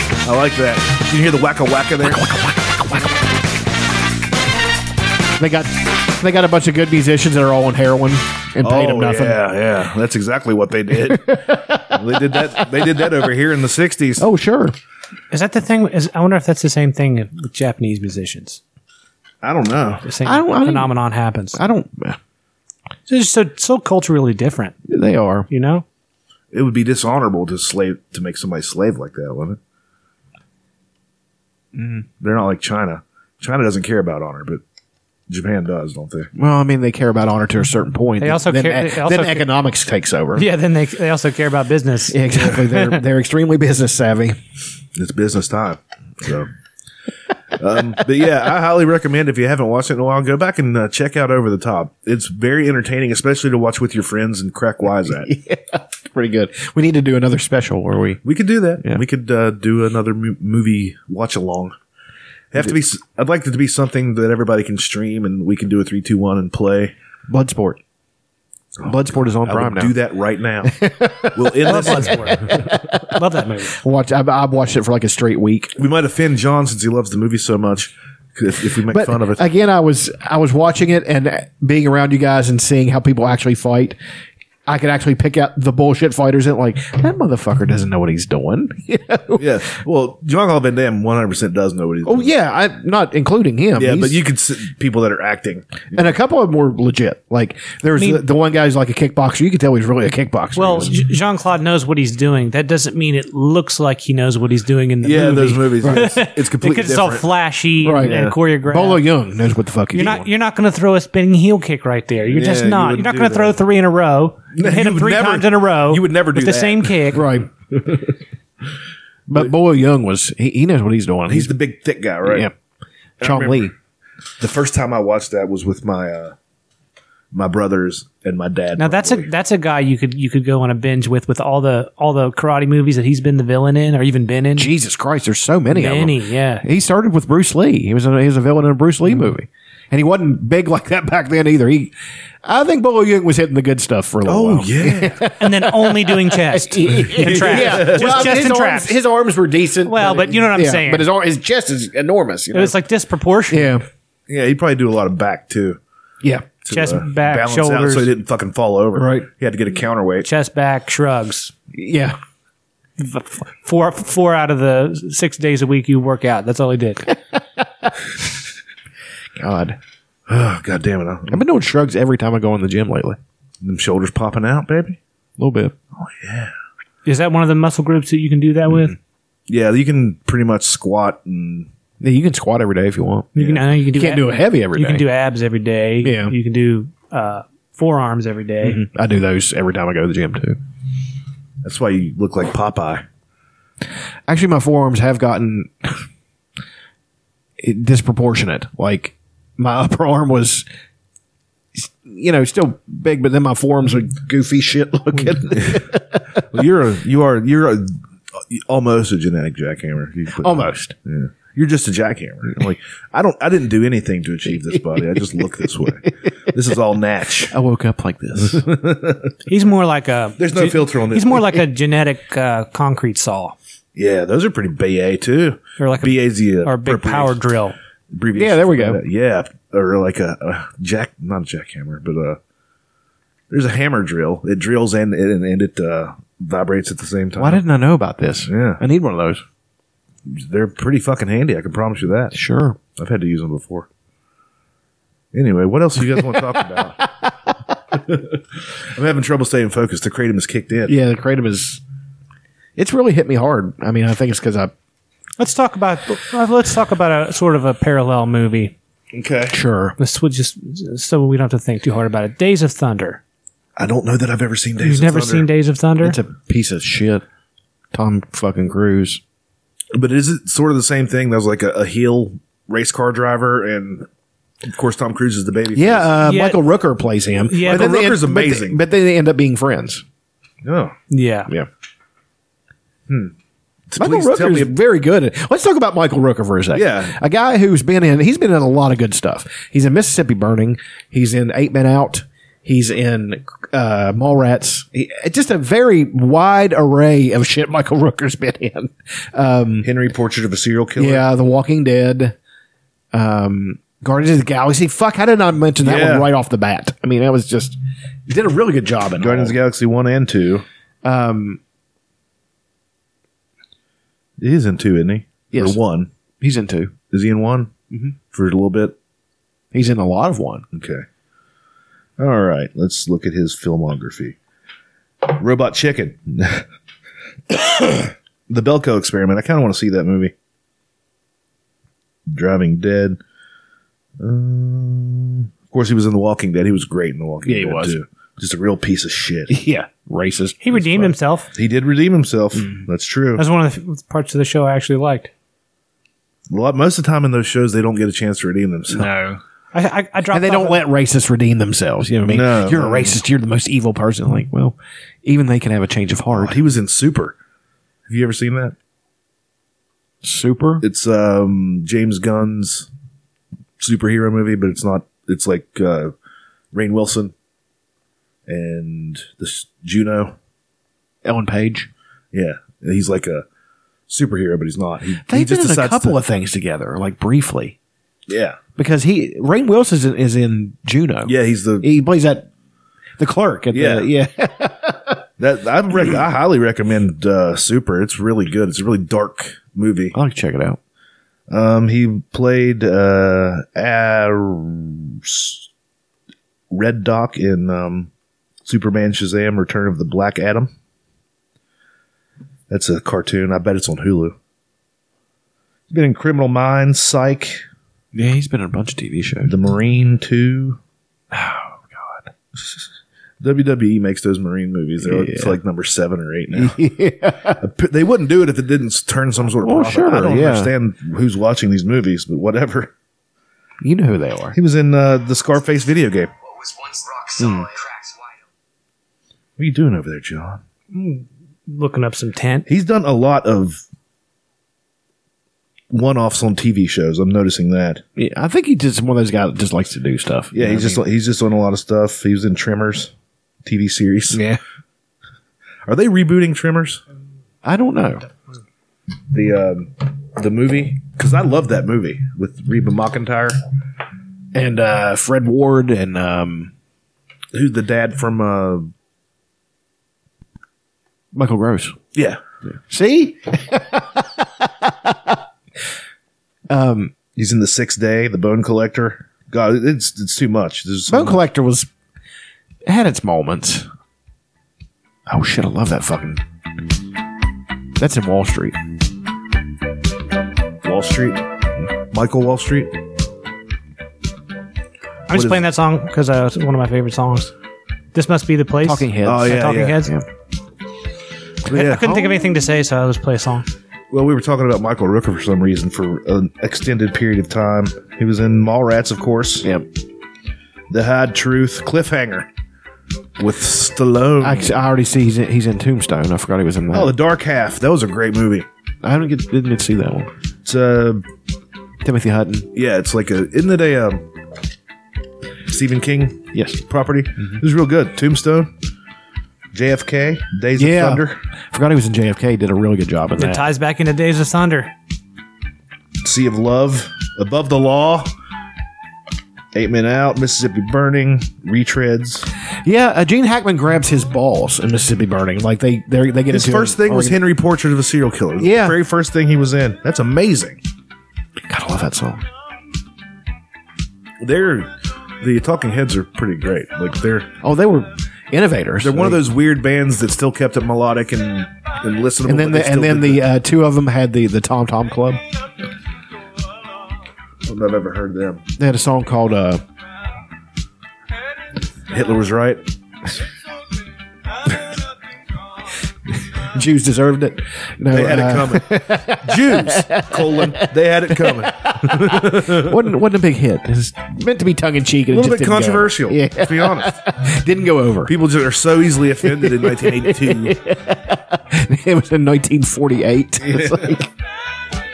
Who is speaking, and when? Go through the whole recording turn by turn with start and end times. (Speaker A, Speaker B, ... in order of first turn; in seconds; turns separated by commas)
Speaker A: 0.2-2.2, Speaker B: 2.0-3.1, Speaker B: 5.4-9.4, Speaker A: 8.6-14.2, Speaker B: 11.1-13.1, Speaker B: 14.2-14.8, Speaker C: 15.3-18.6, Speaker A: 19.4-20.0, Speaker C: 20.0-21.6, Speaker B: 20.2-20.9, Speaker B: 21.5-22.2, Speaker C: 23.1-24.8, Speaker B: 24.9-25.5, Speaker C: 25.5-25.8, Speaker A: 26.5-29.6, Speaker B: 31.7-32.0, Speaker A: 32.2-34.6, Speaker A: 35.3-36.3, Speaker B: 36.3-40.5, Speaker C: 38.2-39.5, Speaker C: 40.3-42.2, Speaker B: 42.1-44.4, Speaker A: 42.3-42.6, Speaker A: 45.0-46.5, Speaker A: 47.5-55.3, Speaker B: 55.2-58.2, Speaker A: 58.2-61.7, Speaker A: 62.5-66.9, Speaker B: 67.3-67.8, Speaker B: 68.8-70.0, Speaker A: 69.4-72.5, Speaker B: 70.6-73.2, Speaker C: 71.7-73.8, Speaker B: 73.7-75.7, Speaker A: 75.8-79.4, Speaker B: 78.9-84.0, Speaker B: 84.7-89.6, Speaker A: 89.4-92.3, Speaker B: 92.0-94.2, Speaker A: 93.8-96.1, Speaker B: 95.9-101.0, Speaker C: 97.9-98.2, Speaker C: 100.5-109.0, Speaker A: 105.0-107.3, Speaker B: 105.8-106.1, Speaker B: 107.8-110.3, Speaker A: 108.0-108.3, Speaker C: 109.9-117.2, Speaker A: 112.3-113.6, Speaker A: 114.5-117.2, Speaker B: 117.1-117.5, Speaker A: 117.7-118.1, Speaker B: 119.3-121.5, Speaker A: 121.3-122.5, Speaker B: 122.2-122.5, Speaker B: 123.2-123.7, Speaker A: 123.2-123.7, Speaker A: 124.4-126.3, Speaker A: 127.3-129.3, Speaker C: 128.8-134.7, Speaker B: 134.6-152.8, Speaker C: 135.7-136.6, Speaker A: 144.2-145.2, Speaker C: 145.4-148.9, Speaker A: 147.2-148.4, Speaker C: 149.8-151.1, Speaker C: 152.5-153.7, Speaker B: 153.5-153.8, Speaker A: 154.3-155.8, Speaker B: 156.2-156.5, Speaker A: 156.6-160.2, Speaker C: 156.7-158.1, Speaker B: 158.9-159.3, Speaker C: 160.2-161.5, Speaker B: 161.7-162.2, Speaker C: 163.0-167.1, Speaker B: 167.6-167.9, Speaker B: 169.4-169.8, Speaker A: 170.3-171.4, Speaker B: 171.3-173.2, Speaker A: 173.6-175.0, Speaker B: 175.4-175.7, Speaker A: 176.0-176.5, Speaker C: 177.1-178.9, Speaker A: 179.5-181.7, Speaker B: 182.0-183.3, Speaker A: 183.3-183.6, Speaker C: 183.3-188.8, Speaker B: 183.9-185.0, Speaker B: 186.0-186.3, Speaker B: 188.6-190.6, Speaker A: 191.6-193.0, Speaker B: 194.3-196.0, Speaker B: 197.6-200.7, Speaker B: 201.7-206.2, Speaker A: 205.5-205.9, Speaker A: 206.5-207.9, Speaker A: 208.5-217.6, Speaker B: 210.4-210.9, Speaker B: 214.9-215.4, Speaker B: 217.5-218.7, Speaker A: 218.3-219.3, Speaker C: 219.5-223.6, Speaker A: 220.4-221.6, Speaker A: 223.9-227.4, Speaker C: 225.8-227.7, Speaker A: 228.1-232.4, Speaker B: 228.3-229.0, Speaker A: 233.5-237.6, Speaker B: 237.3-239.4, Speaker A: 238.5-238.8, Speaker A: 240.2-242.3, Speaker B: 242.3-242.8, Speaker A: 242.9-243.9, Speaker A: 245.3-247.0, Speaker B: 246.0-247.3, Speaker A: 248.0-248.4, Speaker A: 248.9-250.9, Speaker B: 250.9-251.8, Speaker B: 252.8-254.7, Speaker C: 255.4-258.7, Speaker A: 259.1-259.6, Speaker B: 259.5-259.9, Speaker C: 260.0-263.2, Speaker A: 263.8-265.5, Speaker C: 264.8-266.2, Speaker B: 266.0-267.2, Speaker B: 267.9-269.2, Speaker A: 269.9-274.1, Speaker A: 274.6-276.1, Speaker B: 275.7-280.0, Speaker C: 276.2-276.6, Speaker C: 277.5-277.9, Speaker A: 277.6-278.8, Speaker A: 280.6-280.9, Speaker C: 281.1-281.5, Speaker A: 283.9-284.7, Speaker B: 284.0-299.9, Speaker A: 286.7-287.2, Speaker A: 299.8-301.2, Speaker B: 301.0-302.4, Speaker B: 303.1-309.6, Speaker A: 305.8-306.3, Speaker A: 309.2-310.6, Speaker B: 311.0-311.6, Speaker A: 314.4-316.1, Speaker B: 315.5-315.8, Speaker B: 316.4-316.9, Speaker A: 317.1-317.7, Speaker A: 318.3-318.9, Speaker B: 319.7-320.6, Speaker A: 320.7-321.0, Speaker A: 322.2-324.4, Speaker A: 325.2-326.6, Speaker A: 327.5-330.3, Speaker A: 332.3-333.2, Speaker A: 334.2-339.5, Speaker B: 337.4-337.9, Speaker B: 339.5-341.1, Speaker C: 340.6-341.5, Speaker A: 341.5-343.4, Speaker B: 342.5-342.8, Speaker C: 343.4-345.3, Speaker A: 346.5-349.1, Speaker B: 348.9-349.4, Speaker C: 349.7-350.8, Speaker B: 350.3-356.6, Speaker A: 352.3-353.2, Speaker A: 356.3-357.3, Speaker A: 358.1-358.7, Speaker B: 360.2-360.8, Speaker A: 360.8-362.9, Speaker A: 363.8-366.1, Speaker A: 366.7-367.3, Speaker A: 368.5-370.3, Speaker B: 371.2-371.9, Speaker A: 372.3-373.4, Speaker A: 374.1-376.2, Speaker B: 375.2-377.8, Speaker A: 378.3-378.6, Speaker B: 378.8-382.5, Speaker A: 381.2-381.9, Speaker B: 383.2-385.2, Speaker A: 383.7-384.1, Speaker A: 385.4-390.1, Speaker B: 390.1-390.8, Speaker A: 391.5-395.7, Speaker A: 396.7-398.1, Speaker A: 398.6-400.7, Speaker A: 402.7-404.4, Speaker A: 405.9-407.6, Speaker B: 408.1-409.5, Speaker A: 409.4-410.8, Speaker B: 411.3-412.3, Speaker A: 413.4-416.8, Speaker B: 415.0-415.6, Speaker B: 416.5-417.6, Speaker A: 417.6-422.9, Speaker B: 419.6-420.7, Speaker B: 423.8-424.6, Speaker A: 424.5-426.3, Speaker B: 427.4-427.7, Speaker A: 429.6-430.6, Speaker C: 430.9-432.7, Speaker A: 432.7-433.8, Speaker A: 435.9-438.0, Speaker B: 438.1-441.0, Speaker A: 440.5-443.1, Speaker A: 443.6-444.4, Speaker B: 444.3-444.6, Speaker A: 445.9-447.0, Speaker B: 447.6-448.2, Speaker A: 449.3-453.6, Speaker B: 454.5-456.7, Speaker A: 457.5-458.9, Speaker B: 461.3-462.0, Speaker A: 462.1-462.4, Speaker B: 462.9-465.4, Speaker B: 466.7-467.1, Speaker A: 467.3-471.4, Speaker B: 471.1-471.9, Speaker B: 472.9-473.9, Speaker B: 475.3-476.4, Speaker B: 478.0-478.8, Speaker A: 480.8-481.4, Speaker A: 482.1-482.9, Speaker C: 485.3-487.5, Speaker A: 485.3-485.6, Speaker C: 488.1-490.1, Speaker B: 488.8-490.2, Speaker A: 489.2-490.0, Speaker B: 491.7-492.4, Speaker A: 491.7-492.1, Speaker C: 491.7-493.6, Speaker A: 494.1-499.7, Speaker B: 499.6-499.9, Speaker A: 500.9-502.5, Speaker A: 503.4-504.7, Speaker B: 504.4-507.1, Speaker A: 506.9-508.6, Speaker B: 509.0-510.3, Speaker A: 510.6-511.2, Speaker B: 512.0-512.7, Speaker A: 512.7-514.2, Speaker A: 515.7-518.7, Speaker B: 516.5-516.8, Speaker A: 519.7-521.4, Speaker B: 520.8-523.7, Speaker C: 523.4-524.9, Speaker A: 526.2-528.3, Speaker A: 529.7-532.5, Speaker B: 532.8-537.4, Speaker A: 536.5-540.8, Speaker B: 538.6-539.0, Speaker B: 541.7-542.4, Speaker A: 544.4-544.9, Speaker A: 545.4-547.5, Speaker B: 547.6-549.4, Speaker A: 549.0-553.5, Speaker B: 552.5-555.4, Speaker A: 557.6-558.6, Speaker B: 558.8-559.8, Speaker A: 562.1-562.8, Speaker B: 566.7-578.3, Speaker A: 568.1-573.0, Speaker A: 575.3-577.2, Speaker A: 578.2-580.8, Speaker B: 579.4-584.3, Speaker A: 583.7-584.2